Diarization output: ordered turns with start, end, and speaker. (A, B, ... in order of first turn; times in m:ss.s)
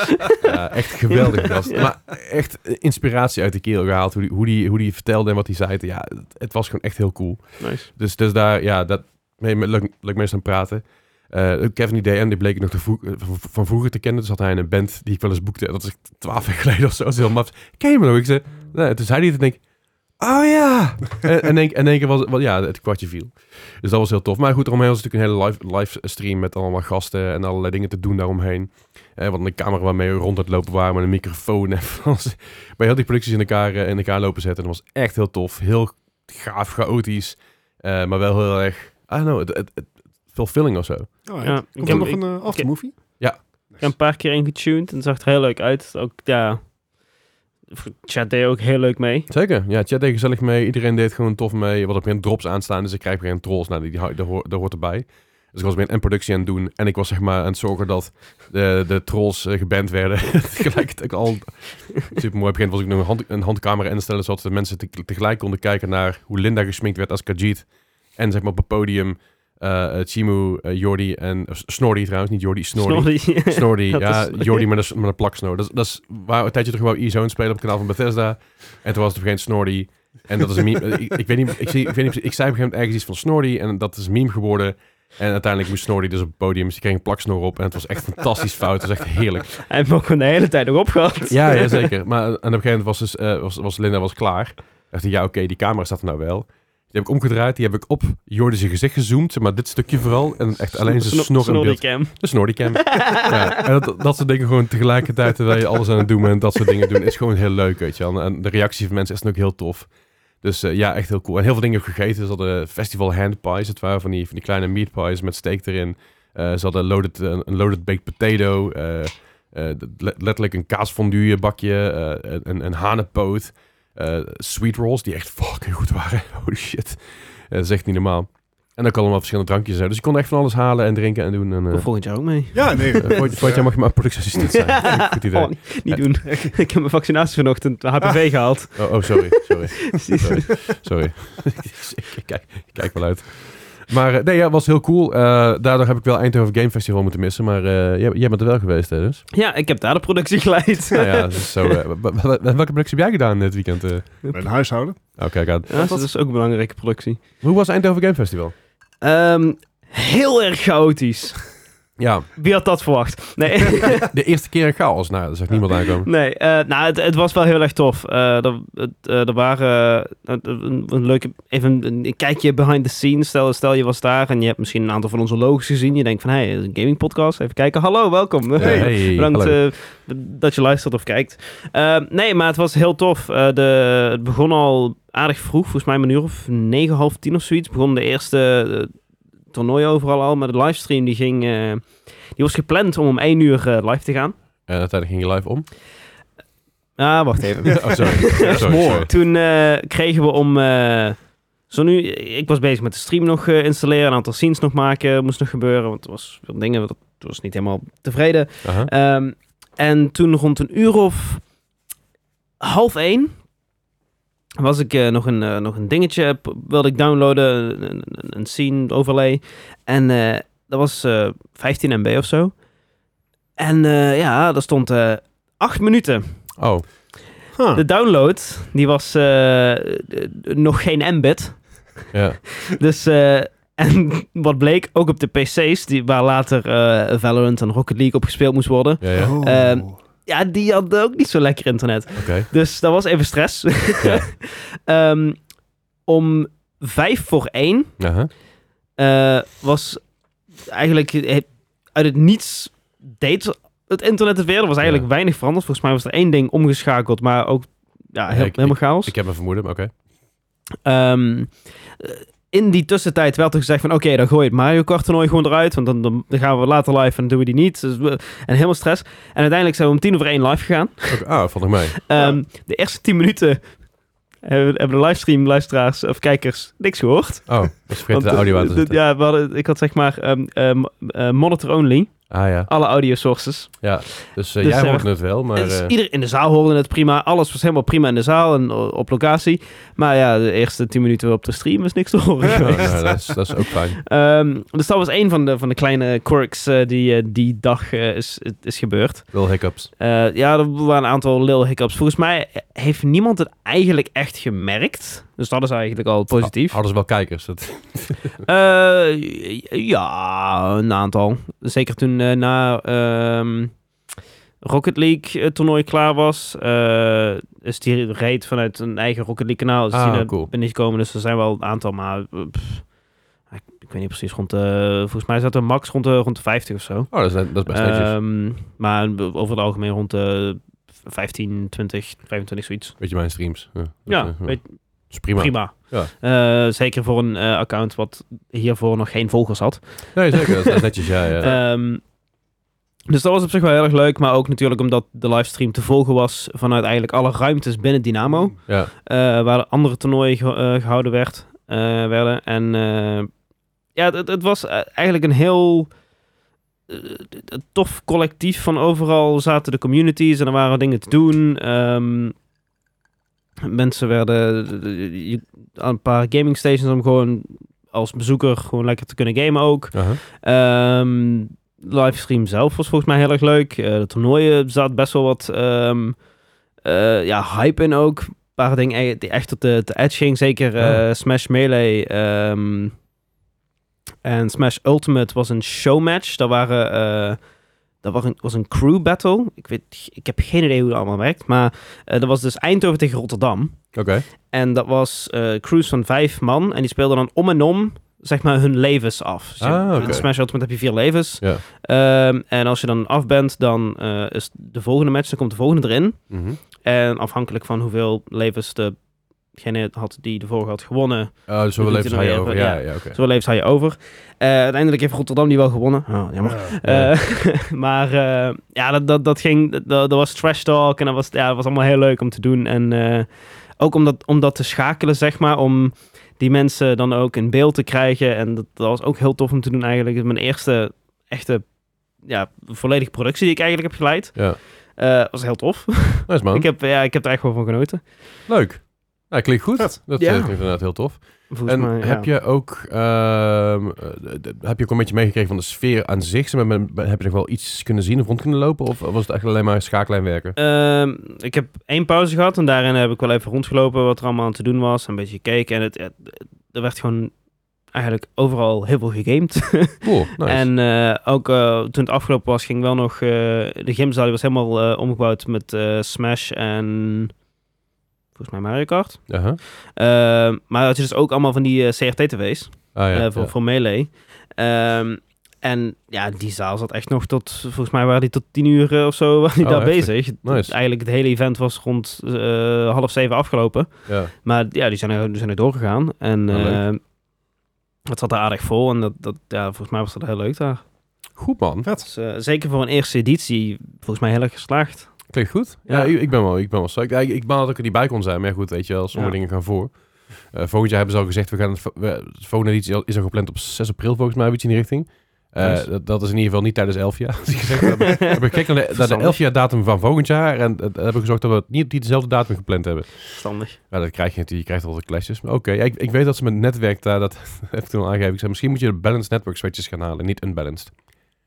0:00.4-0:19.6 A
0:07.6-0:07.9 B
0:20.2-0:42.1 A
0:41.2-0:43.0 C
0:41.4-0:43.2 B
0:43.8-0:46.7 B
0:47.7-0:49.3 B
0:49.3-1:29.6 A
1:12.8-1:14.7 B
1:29.7-1:31.9 B
1:31.3-2:11.9 A
1:40.8-1:43.6 B
2:11.7-2:13.3 B
2:12.5-2:13.8 C
2:13.0-2:16.0 A
2:14.5-2:20.3 B
2:16.2-2:16.6 C
2:18.8-2:29.2 A
2:29.3-2:31.5 B
2:30.9-2:34.3 A
2:34.3-2:36.1 C
2:35.2-2:35.7 A
2:35.7-2:37.2 B
2:37.4-2:38.5 A
2:39.0-2:41.5 B
2:42.0-2:42.3 A
2:42.4-2:44.1 B
2:43.8-2:46.1 A
2:46.0-3:09.0 B
2:58.6-2:59.6 A
2:58.6-2:58.9 C
3:09.5-3:14.4 B
3:14.7-3:15.7 A
3:17.0-3:31.5 B
3:17.8-3:19.1 A
3:17.8-3:19.1 C
3:28.6-3:28.9 A
3:32.6-3:33.4 B
3:34.6-3:42.6 B
3:43.6-3:46.5 B
3:46.6-3:46.9 A
3:47.6-3:47.8 C
3:47.7-4:05.4 B
3:52.1-3:52.6 A
3:59.0-3:59.4 A
3:59.2-4:00.0 C
4:02.2-4:02.5 A
4:04.0-4:04.3 A
4:06.1-4:08.0 B
4:08.0-4:08.3 A
4:09.0-4:10.0 B
4:10.7-4:19.1 B
4:18.3-4:19.9 A
4:20.8-4:31.4 B
4:31.1-4:32.0 A
4:32.0-4:33.8 B
4:34.4-5:06.8 B
4:37.5-4:39.0 A
4:42.3-4:42.7 A
4:43.8-4:45.9 A
4:52.6-4:54.0 A
4:59.3-4:59.9 A
5:06.3-5:08.4 A
5:08.4-5:13.8 B
5:14.6-5:22.9 B
5:19.9-5:20.5 A
5:23.5-5:33.0 B
5:27.1-5:28.2 A
5:33.0-5:36.1 A
5:34.1-5:40.9 B
5:40.1-5:41.5 A
5:41.4-5:42.0 B
5:43.1-5:53.3 B
5:48.7-5:48.9 A
5:54.0-5:55.9 B
5:56.9-6:02.4 B
6:03.6-6:16.2 B
6:09.9-6:10.2 A
6:16.8-6:23.0 B
6:24.2-6:27.4 B
6:28.0-6:49.0 B
6:33.9-6:34.3 A
6:39.6-6:40.3 A
6:40.0-6:40.2 C
6:46.3-6:46.6 A
6:49.5-7:03.3 B
6:51.5-6:53.2 A
6:56.4-6:56.8 C
6:56.8-6:57.1 A
7:03.8-7:11.7 B
7:12.2-7:18.0 B
7:14.4-7:14.6 A
7:16.3-7:16.7 A
7:18.5-7:30.6 A
7:20.2-7:20.7 B
7:21.5-7:22.3 B
7:30.6-7:37.3 B
7:37.9-7:47.3 B
7:40.0-7:40.7 A
7:48.4-8:07.0 B
7:49.3-7:49.6 A
7:53.0-7:53.5 A
7:59.6-8:00.7 A
8:04.1-8:04.3 A
8:06.5-8:06.8 A
8:08.1-8:10.8 B
8:11.4-8:11.9 A
8:12.0-8:15.3 B
8:15.3-8:41.0 A
8:15.9-8:16.2 B
8:25.6-8:25.8 B
8:28.0-8:29.4 B
8:33.4-8:33.8 B